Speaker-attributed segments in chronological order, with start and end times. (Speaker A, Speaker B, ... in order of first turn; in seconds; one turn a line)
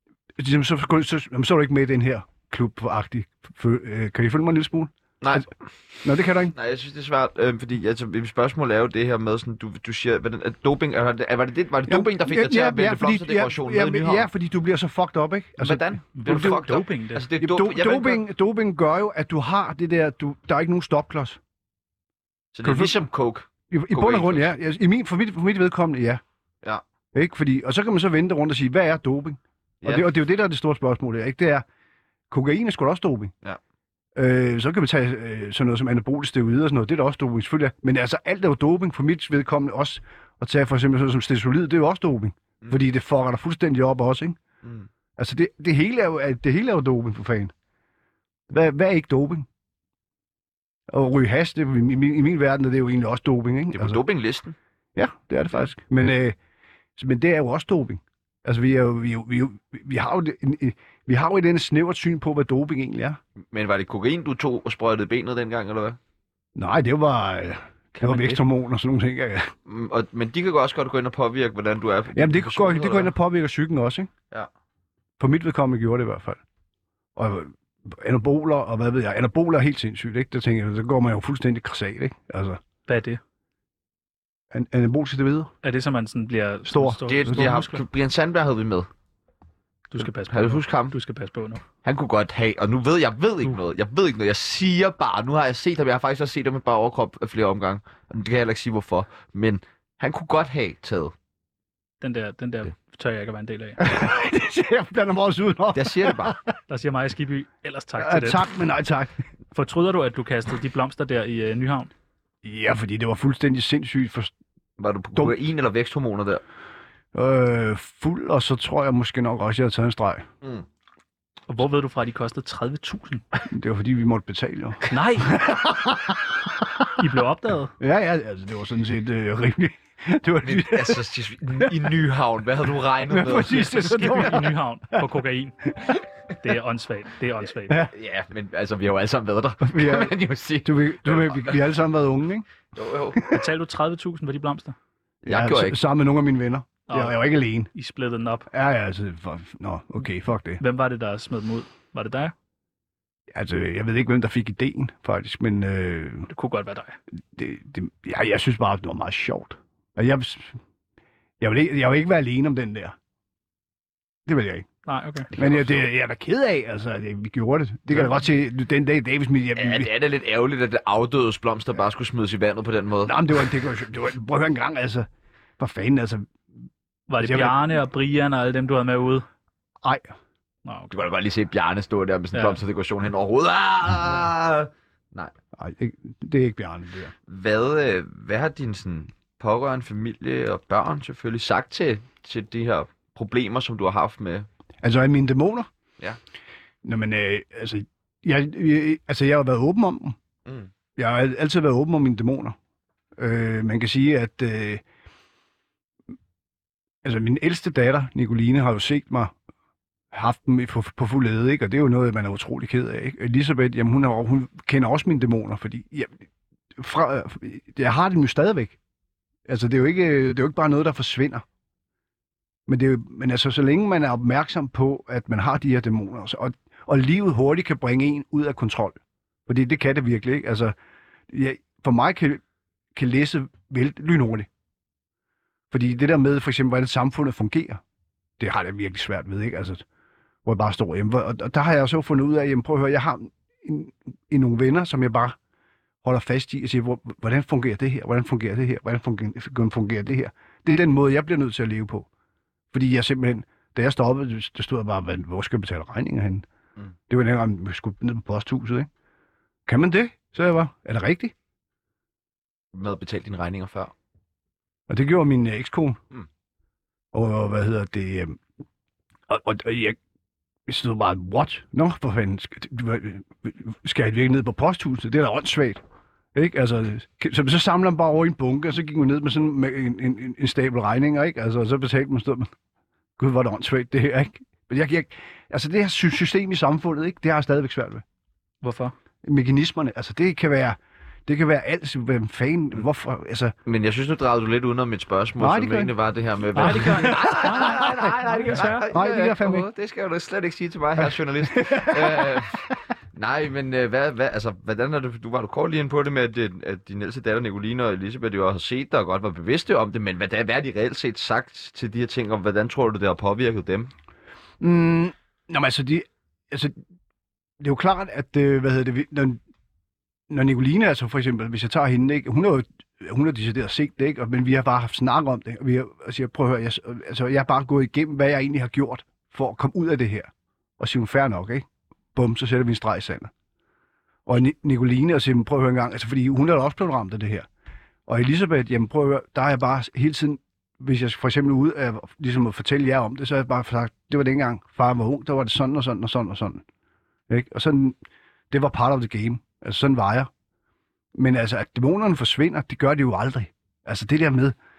Speaker A: 0.4-5.5
Speaker B: 5.2-6.0
Speaker A: 6.0-6.5
Speaker B: 6.5-14.3
Speaker A: 11.9-15.9
Speaker B: 15.6-18.2
Speaker C: 16.1-17.3
Speaker A: 17.4-21.4
Speaker B: 22.5-24.5
Speaker A: 22.6-23.1
Speaker A: 23.7-26.2
Speaker A: 27.1-31.6
Speaker B: 29.8-30.1
Speaker A: 32.3-33.3
Speaker A: 34.1-44.4
Speaker B: 44.6-44.9
Speaker A: 45.2-47.5
Speaker A: 48.5-49.5
Speaker A: 50.9-54.0
Speaker B: 53.7-54.5
Speaker A: 54.9-56.4
Speaker A: 57.0-63.2
Speaker B: 63.5-66.0
Speaker A: 66.5-69.5
Speaker C: 67.9-68.4
Speaker B: 69.7-73.1
Speaker A: 72.1-74.1
Speaker A: 75.2-76.4
Speaker A: 77.2-82.6
Speaker C: 82.9-83.2
Speaker A: 84.5-85.5
Speaker C: 85.6-87.8
Speaker A: 86.7-87.5
Speaker B: 87.0-88.9
Speaker C: 89.9-91.6
Speaker B: 90.0-90.9
Speaker B: 91.8-101.1
Speaker C: 102.0-103.8
Speaker A: 103.8-106.5
Speaker B: 105.7-106.4
Speaker C: 106.7-108.4
Speaker A: 108.0-109.1
Speaker C: 109.5-111.9
Speaker A: 112.4-114.3
Speaker B: 114.8-116.4
Speaker A: 117.1-120.3
Speaker C: 121.5-123.2
Speaker A: 123.5-126.9
Speaker C: 124.9-125.3
Speaker C: 127.0-127.7
Speaker A: 127.8-131.0
Speaker B: 130.4-133.8
Speaker A: 133.1-135.1
Speaker C: 133.4-135.8
Speaker C: 136.4-137.9
Speaker B: 137.9-141.6
Speaker A: 139.6-140.1
Speaker A: 140.6-142.4
Speaker B: 142.7-143.3
Speaker C: 143.3-144.7
Speaker B: 145.2-145.8
Speaker A: 145.3-147.7
Speaker C: 146.9-148.5
Speaker A: 148.5-150.6
Speaker C: 150.6-152.3
Speaker A: 153.3-156.3
Speaker C: 156.3-157.0
Speaker A: 157.3-160.6
Speaker A: 161.4-162.9
Speaker A: 164.2-164.7
Speaker C: 164.8-165.3
Speaker B: 165.3-165.8
Speaker A: 165.4-169.9
Speaker B: 169.6-173.2
Speaker A: 173.0-175.1
Speaker A: 175.6-176.3
Speaker C: 177.1-179.2
Speaker A: 177.2-177.6
Speaker A: 179.8-180.1
Speaker C: 180.6-180.9
Speaker B: 180.9-185.3
Speaker C: 182.3-182.6
Speaker A: 185.6-187.1
Speaker B: 187.3-194.5
Speaker A: 194.8-195.7
Speaker A: 196.8-200.2
Speaker B: 200.4-200.7
Speaker A: 200.9-202.6
Speaker A: 203.2-204.8
Speaker A: 207.0-209.3
Speaker A: 210.1-216.2
Speaker A: 216.8-218.8
Speaker A: 219.5-221.4
Speaker A: 222.7-230.7
Speaker A: 231.3-232.4
Speaker A: 232.9-234.5
Speaker A: 235.7-237.8
Speaker A: 238.4-239.8
Speaker A: 240.4-245.3
Speaker A: 246.0-252.1
Speaker A: 252.7-256.4
Speaker A: 257.1-258.9
Speaker A: 259.6-261.3
Speaker B: 262.7-263.9
Speaker A: 264.9-266.0
Speaker A: 267.1-268.4
Speaker A: 269.3-270.0
Speaker A: 270.7-275.8
Speaker A: 276.3-282.5
Speaker A: 283.2-288.0
Speaker C: 288.6-288.9
Speaker A: 289.2-293.5
Speaker B: 293.6-313.9
Speaker A: 295.4-295.9
Speaker C: 296.5-298.9
Speaker A: 296.6-299.7
Speaker A: 301.4-302.6
Speaker A: 314.6-316.8
Speaker A: 317.6-319.4
Speaker A: 320.3-333.3
Speaker A: 334.2-337.5
Speaker A: 338.1-346.6
Speaker A: 347.3-348.0
Speaker A: 348.5-350.3
Speaker A: 351.1-354.6